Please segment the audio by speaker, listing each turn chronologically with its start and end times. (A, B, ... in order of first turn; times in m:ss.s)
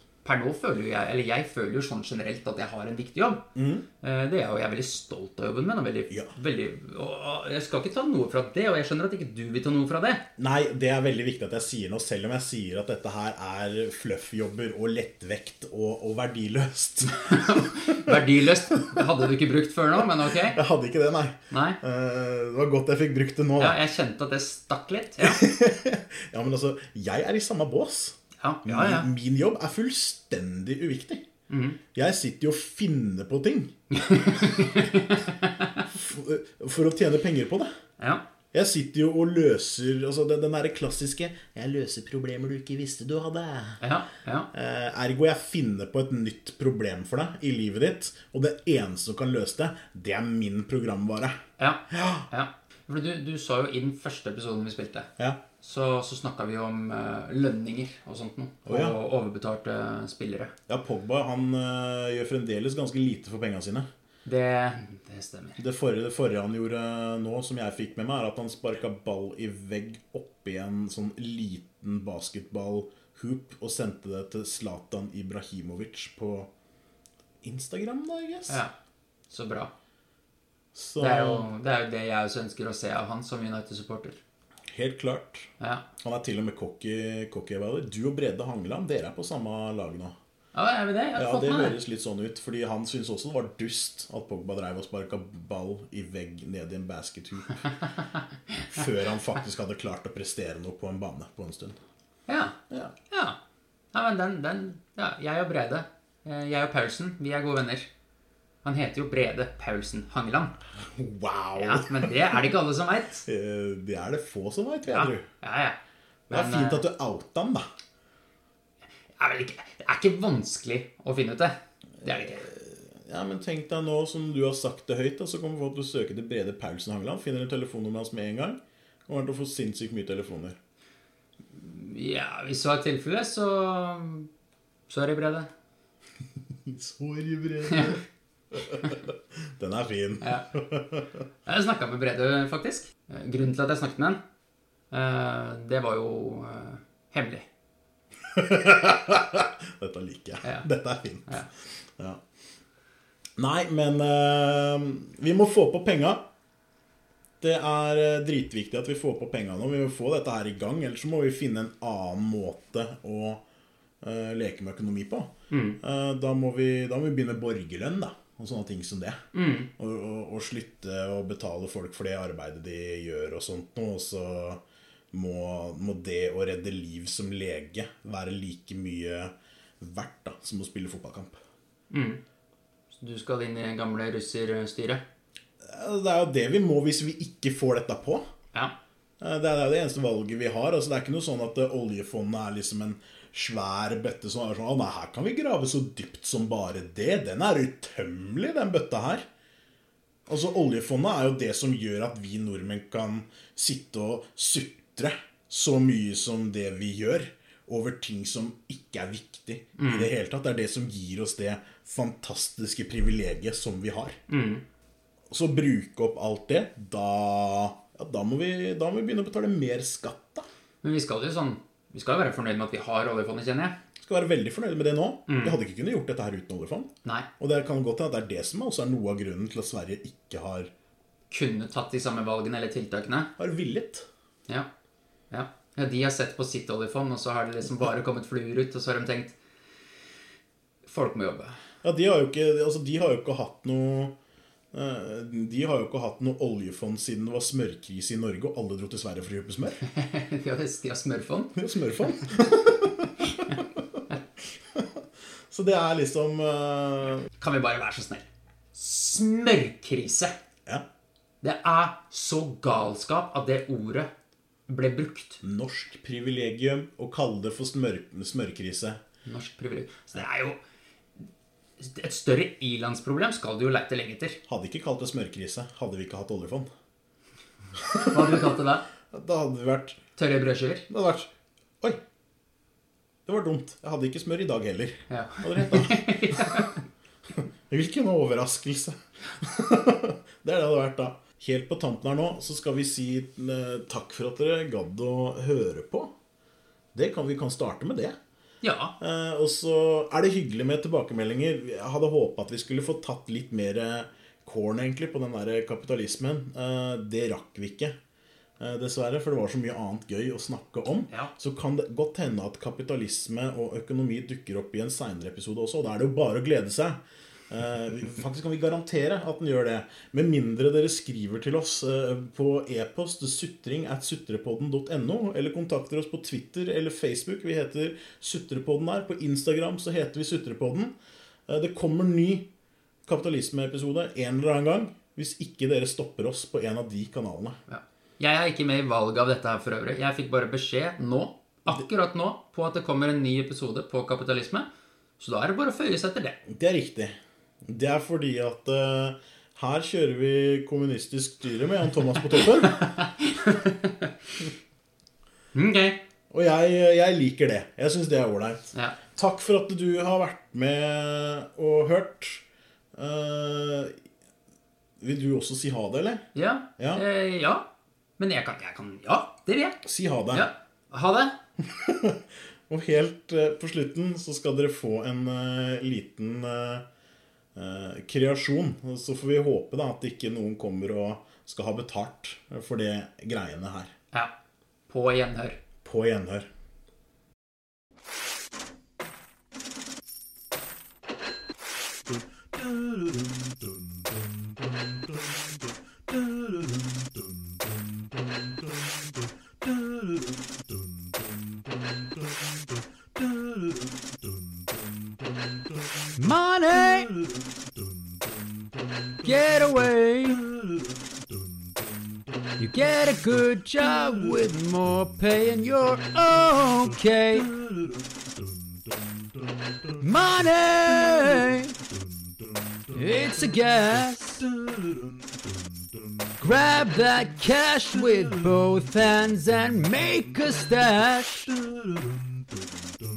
0:00.2-0:03.5 A
0:03.6-0:03.9 B
0:04.0-0:10.3 A
0:10.4-0:19.0 B
0:17.0-0:20.6 A
0:20.4-0:23.8 B
0:21.5-0:21.8 A
0:23.6-0:25.4 A
0:25.2-0:31.2 B
0:28.4-0:29.1 A
0:31.5-0:31.8 A
0:31.9-0:33.8 B
0:33.9-0:35.8 A
0:36.0-0:37.7 B
0:38.0-0:38.2 A
0:38.5-0:43.8 B
0:43.8-0:44.5 A
0:44.5-0:51.4 B
0:51.6-1:00.5 A
0:51.9-0:52.3 B
0:58.7-0:59.0 B
1:00.7-1:03.9 B
1:04.2-1:05.6 A
1:05.6-1:16.5 B
1:17.4-1:18.6 B
1:18.5-1:18.7 A
1:19.3-1:19.7 A
1:20.8-1:21.5 B
1:21.0-1:24.2 A
1:24.7-1:30.2 B
1:25.6-1:25.9 A
1:30.5-1:31.8 A
1:31.2-1:37.8 B
1:38.5-1:38.8 A
1:38.7-1:41.8 B
1:42.3-1:42.6 A
1:43.1-1:43.4 A
1:43.9-1:47.9 A
1:48.6-1:50.5 A
1:50.8-1:52.4 B
1:51.6-1:53.2 A
1:53.2-1:55.3 B
1:54.9-1:55.8 A
1:56.3-1:56.9 A
1:56.3-1:57.7 B
1:59.2-2:02.5 A
2:02.0-2:10.6 B
2:11.5-2:14.3 A
2:14.9-2:15.5 A
2:16.7-2:18.0 B
2:17.7-2:18.0 A
2:18.5-2:21.1 B
2:20.2-2:20.5 A
2:21.5-2:24.2 A
2:24.9-2:27.5 A
2:28.3-2:32.2 B
2:33.4-2:36.2 B
2:37.4-2:43.4 B
2:44.0-2:49.2 B
2:45.5-2:45.8 A
2:49.3-2:49.7 A
2:49.8-2:54.6 B
2:55.1-3:01.4 B
3:01.9-3:02.2 A
3:02.9-3:05.0 A
3:05.6-3:08.2 B
3:09.2-3:19.3 B
3:20.3-3:34.2 B
3:29.8-3:30.1 A
3:34.3-3:34.6 A
3:35.3-3:40.5 B
3:40.8-3:43.8 A
3:44.0-3:50.7 B
3:45.3-3:45.6 A
3:51.3-3:53.3 A
3:53.4-3:54.1 B
3:55.3-3:59.4 A
4:00.8-4:01.6 A
4:01.8-4:04.2 B
4:04.7-4:09.8 B
4:09.8-4:11.6 A
4:11.6-4:14.0 B
4:14.7-4:17.3 B
4:17.4-4:20.4 A
4:21.4-4:24.1 A
4:24.7-4:25.4 A
4:25.4-4:29.0 B
4:29.2-4:30.6 A
4:31.8-4:34.4 A
4:34.5-4:36.7 B
4:37.8-4:38.5 B
4:38.1-4:38.8 A
4:39.1-4:40.0 B
4:40.2-4:40.9 A
4:40.9-4:42.0 B
4:43.3-4:46.6 B
4:45.1-4:46.8 A
4:47.4-4:56.1 B
4:57.0-4:58.2 B
4:58.6-4:59.0 A
4:59.0-5:07.9 B
5:08.6-5:17.0 B
5:17.5-5:31.0 B
5:31.5-5:32.5 B
5:33.1-5:37.6 B
5:37.7-5:44.7 A
5:45.2-5:46.4 A
5:46.5-5:47.2 B
5:47.7-5:52.9 B
5:52.3-5:54.1 A
5:55.5-5:56.0 A
5:56.3-6:02.4 B
6:03.0-6:04.0 B
6:05.0-6:06.2 B
6:06.3-6:11.4 A
6:06.8-6:07.0 B
6:09.8-6:10.5 B
6:11.6-6:16.8 B
6:17.6-6:23.9 B
6:24.9-6:25.6 A
6:25.8-6:26.5 B
6:46.2-6:47.1 C
6:49.2-6:50.4 C
6:52.6-6:57.5 C
7:00.0-7:01.7 C
7:02.9-7:04.5 C
7:06.4-7:11.5 C